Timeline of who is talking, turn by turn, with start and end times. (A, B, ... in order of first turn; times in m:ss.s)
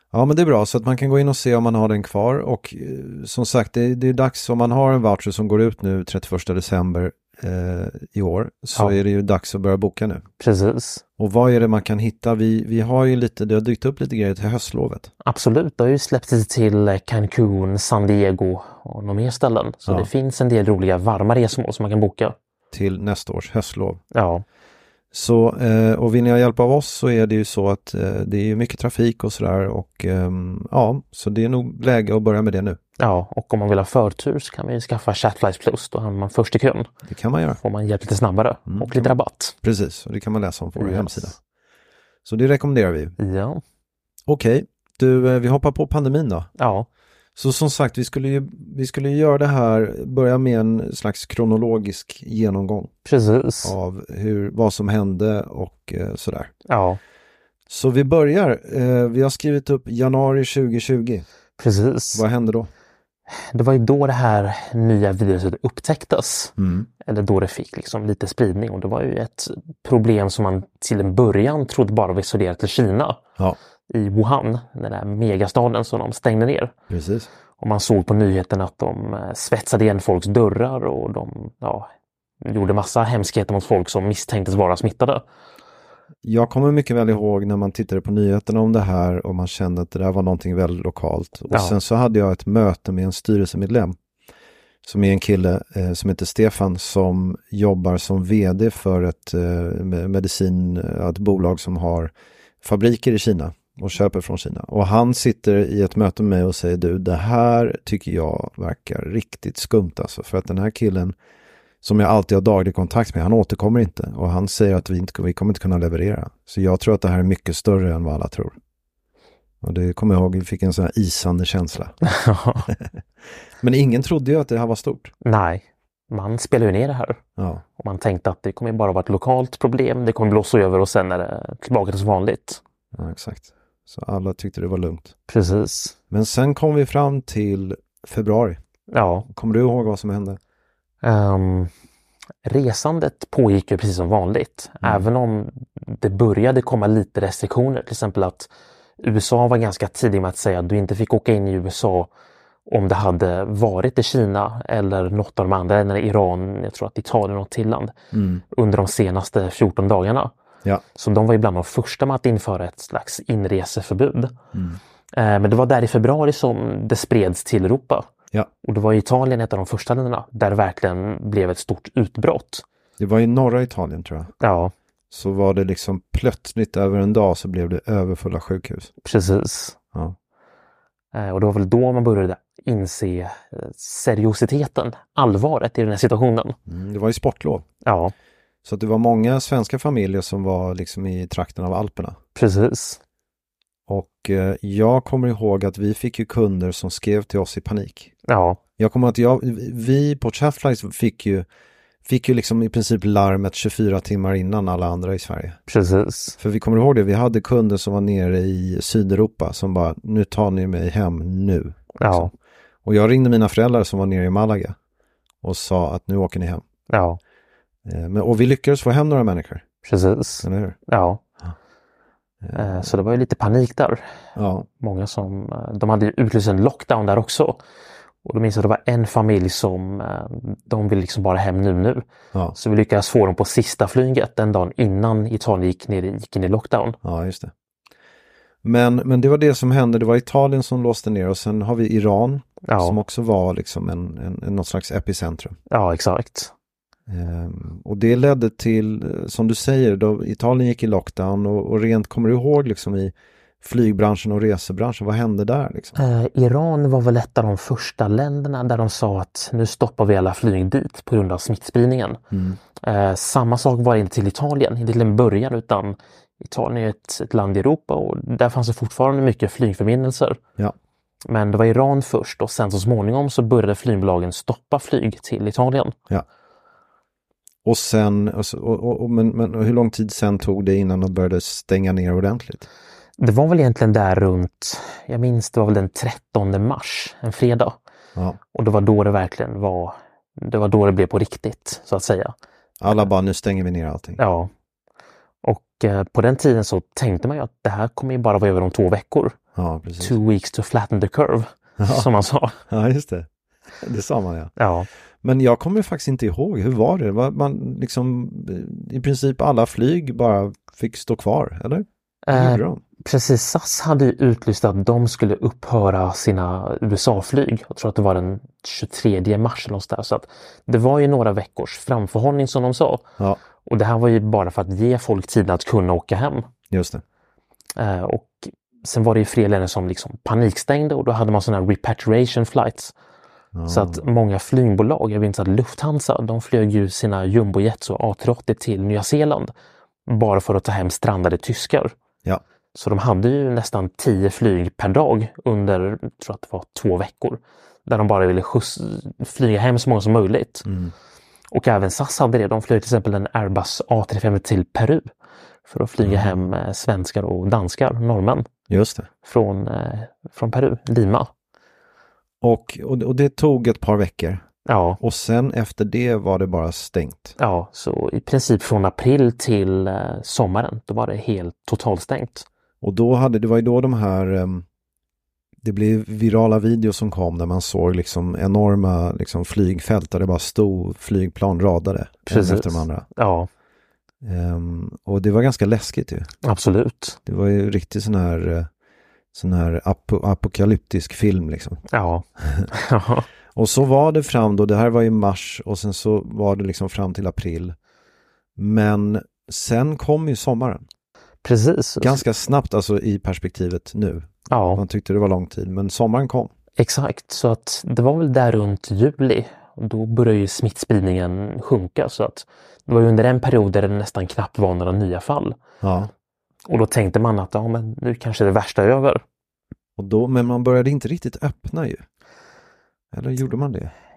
0:00.1-0:10.2 A
0:10.4-0:11.0 B
0:11.2-0:15.1 A
0:15.2-0:22.4 B
0:22.7-0:24.0 A
0:24.1-0:24.4 B
0:25.1-0:32.8 A
0:33.0-0:36.9 B
0:37.1-0:37.6 A
0:37.6-0:39.5 B
0:38.7-0:41.4 A
0:40.8-0:41.3 B
0:42.2-0:43.2 A
0:43.2-0:43.6 B
0:44.3-0:46.5 A
0:46.6-0:46.9 B
0:47.4-0:52.9 A
0:53.0-0:53.7 B
0:53.6-0:56.5 A
0:56.7-0:57.0 B
0:57.7-1:01.2 A
1:01.6-1:02.2 B
1:02.1-1:02.7 A
1:03.5-1:06.5 B
1:06.6-1:06.9 A
1:07.0-1:13.2 B
1:13.9-1:16.7 B
1:16.9-1:17.3 A
1:17.6-1:21.9 B
1:22.4-1:25.2 B
1:26.2-1:34.0 A
1:34.8-1:51.2 A
1:51.8-1:58.5 A
1:59.6-2:01.9 A
2:02.0-2:02.7 B
2:03.6-2:05.1 A
2:05.2-2:07.2 B
2:07.4-2:07.6 A
2:07.8-2:12.6 B
2:12.9-2:15.1 A
2:15.3-2:16.0 B
2:16.1-2:18.6 A
2:18.9-2:19.3 B
2:19.3-2:20.4 A
2:21.0-2:21.7 B
2:22.4-2:32.1 B
2:32.7-2:37.9 B
2:38.1-2:38.4 A
2:38.5-2:40.3 B
2:40.9-2:44.4 B
2:44.5-2:44.8 A
2:45.1-2:48.1 B
2:48.6-2:52.6 B
2:53.0-2:54.3 A
2:54.4-2:54.7 B
2:55.1-2:58.9 A
2:59.0-2:59.8 B
3:01.1-3:06.6 B
3:06.7-3:07.6 A
3:07.8-3:08.1 B
3:08.6-3:12.2 A
3:12.4-3:13.0 B
3:13.9-3:18.1 A
3:18.3-3:18.6 B
3:18.8-3:21.4 A
3:22.0-3:25.6 A
3:25.7-3:26.4 B
3:26.4-3:32.3 A
3:32.0-3:32.3 B
3:32.8-3:34.8 A
3:35.4-3:36.6 A
3:36.9-3:37.2 B
3:37.8-3:39.6 A
3:39.8-3:41.2 B
3:40.4-3:40.8 A
3:42.4-3:42.9 A
3:42.5-3:44.0 B
3:44.4-3:44.7 A
3:44.8-3:47.6 B
3:48.2-3:57.0 B
3:57.0-3:57.5 A
3:58.6-4:05.6 A
4:02.6-4:03.0 B
4:05.7-4:06.5 B
4:07.1-4:16.0 A
4:16.0-4:22.2 B
4:22.3-4:22.6 A
4:22.8-4:30.4 B
4:31.3-4:35.9 B
4:37.6-4:42.7 A
4:43.2-4:47.8 B
4:48.5-4:52.3 B
4:52.8-4:54.2 A
4:54.2-4:54.5 B
4:55.4-4:59.4 B
4:59.6-5:00.2 A
5:00.0-5:02.6 B
5:01.8-5:02.1 A
5:02.7-5:03.3 A
5:03.8-5:04.5 A
5:04.6-5:04.9 B
5:05.2-5:12.8 A
5:12.3-5:23.1 B
5:23.6-5:26.5 B
5:26.7-5:27.0 A
5:27.8-5:32.9 B
5:33.5-5:34.0 A
5:33.7-5:39.5 B
5:40.1-5:41.9 B
5:42.7-5:50.7 B
5:50.6-5:50.9 A
5:51.5-5:55.1 B
5:55.7-5:58.4 B
5:56.0-5:56.3 A
5:58.7-5:59.1 A
5:59.2-6:01.3 B
6:02.4-6:04.4 A
6:04.6-6:05.0 B
6:05.0-6:07.4 A
6:07.4-6:12.4 B
6:12.8-6:14.6 A
6:15.6-6:23.0 A
6:22.3-6:23.5 B
6:24.2-6:26.3 A
6:26.4-6:27.2 B
6:27.2-6:28.7 A
6:29.3-6:31.8 A
6:31.9-6:33.2 B
6:32.4-6:32.7 A
6:33.5-6:37.8 A
6:38.6-6:40.8 A
6:41.4-6:42.2 B
6:42.0-6:46.5 A
6:44.5-6:44.8 B
6:46.8-6:55.6 B
6:55.8-6:56.1 A
6:56.6-6:59.2 B
7:00.0-7:02.0 A
7:03.1-7:03.9 A